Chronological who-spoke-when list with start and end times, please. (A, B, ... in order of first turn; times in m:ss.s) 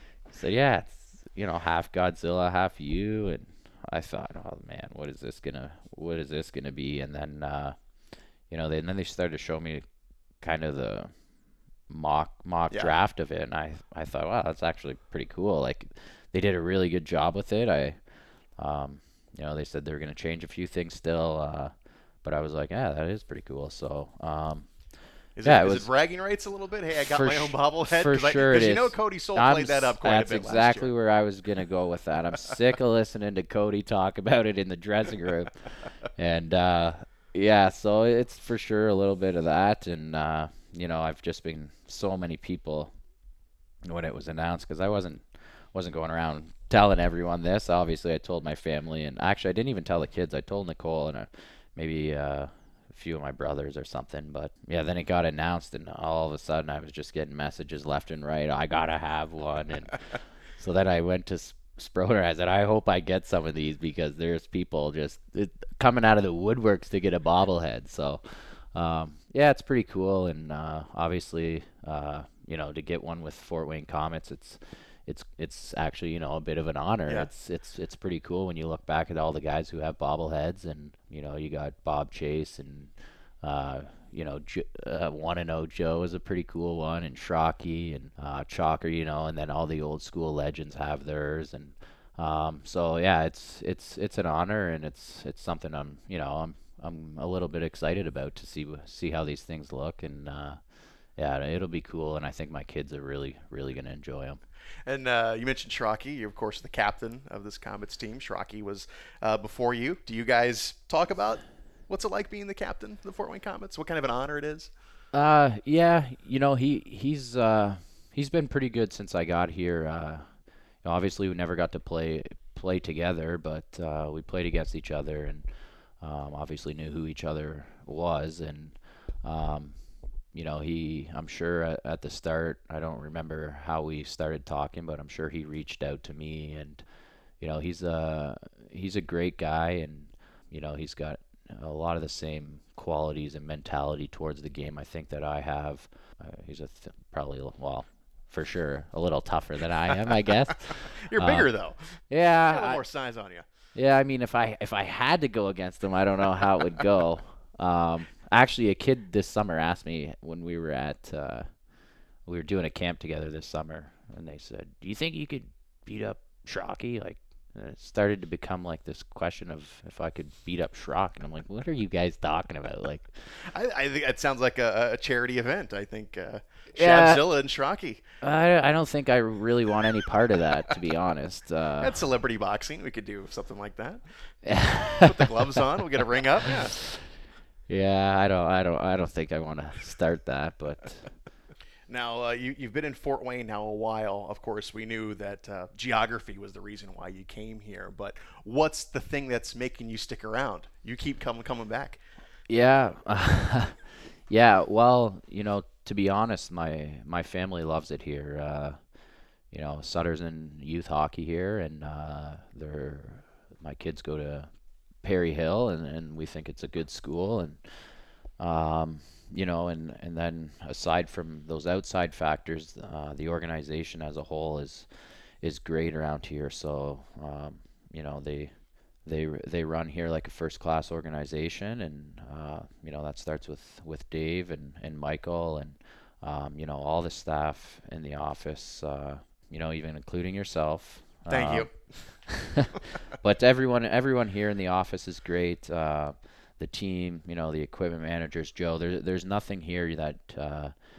0:00.3-0:07.8 A
0:08.5-0:09.8 A
0:10.4-0:11.1 A
0:11.9-0:18.0 A
0:18.5-0:24.8 A
0:25.4-0:30.9 B
0:25.4-0:25.9 A
0:27.1-0:42.9 A
0:43.8-1:40.6 A
1:41.2-1:44.4 A
1:44.8-1:54.7 B
1:55.1-2:09.8 A
2:10.3-2:16.8 A
2:17.4-2:31.5 A
2:30.8-2:33.4 B
2:32.0-2:32.8 A
2:33.7-2:41.5 A
2:42.2-2:53.4 A
2:53.4-2:58.0 B
2:56.8-2:57.2 A
2:58.2-3:02.0 A
3:01.8-3:04.0 B
3:04.4-3:05.2 A
3:05.0-3:06.7 B
3:06.7-3:07.0 A
3:07.7-3:11.1 A
3:11.9-3:22.0 B
3:22.5-3:28.8 A
3:29.5-3:34.5 A
3:35.0-3:48.5 A
3:49.0-4:10.7 A
4:01.3-4:02.1 B